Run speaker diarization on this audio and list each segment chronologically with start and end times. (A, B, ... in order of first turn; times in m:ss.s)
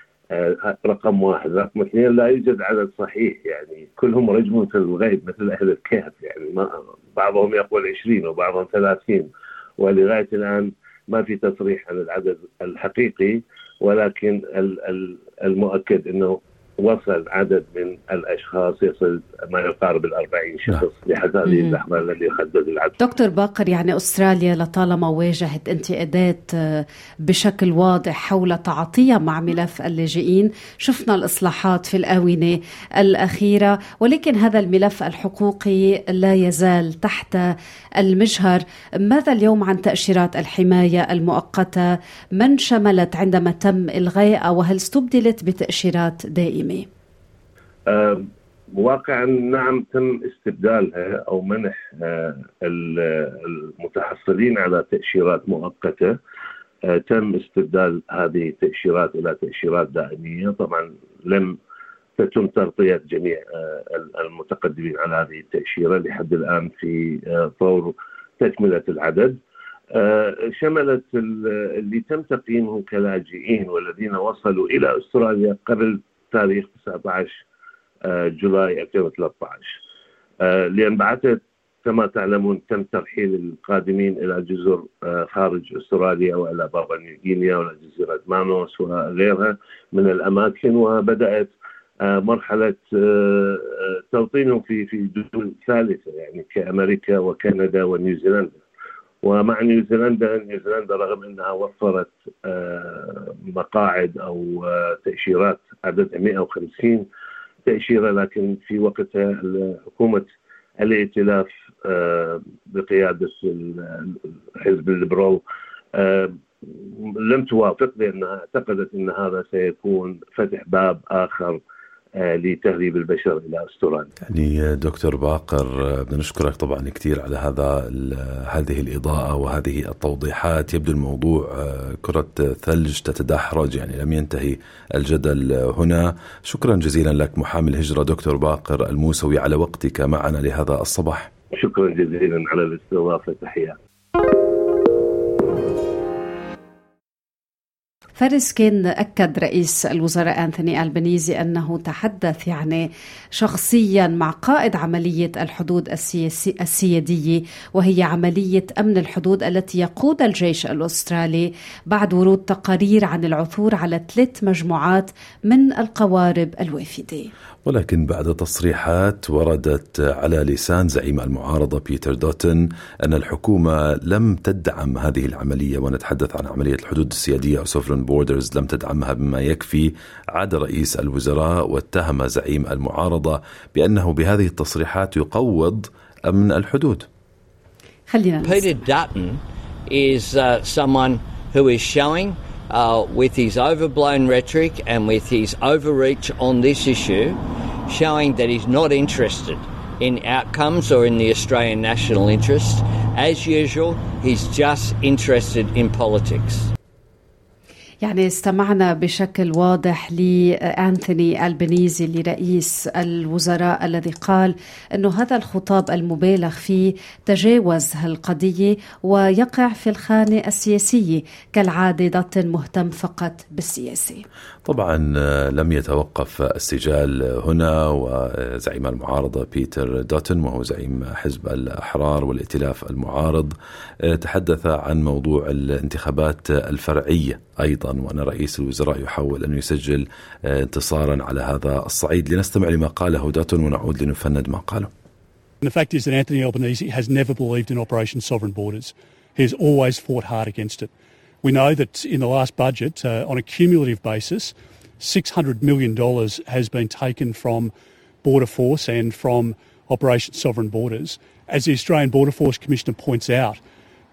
0:00.3-0:23.0 A
0:21.5-0:21.8 B
0:23.0-0:46.9 B
0:47.9-0:56.2 A
0:56.9-1:01.6 A
1:02.2-1:09.4 A
1:10.0-1:17.4 A
1:18.0-1:19.8 A
1:20.4-1:31.5 A
1:32.0-1:38.6 A
1:39.2-1:47.1 A
1:47.7-1:50.3 A
1:50.8-1:55.4 A
1:56.0-2:01.6 A
2:02.2-2:04.1 A
2:04.2-2:21.3 C
2:21.6-2:23.7 A
2:28.2-2:32.9 B
2:33.4-2:47.3 B
2:47.7-3:07.1 C
3:08.1-3:08.6 B
3:08.4-3:26.7 D
3:28.0-3:44.2 B
3:44.6-3:53.5 C
3:54.1-4:04.9 C
4:05.6-4:10.9 E
4:11.4-4:17.7 E
4:18.2-4:23.6 E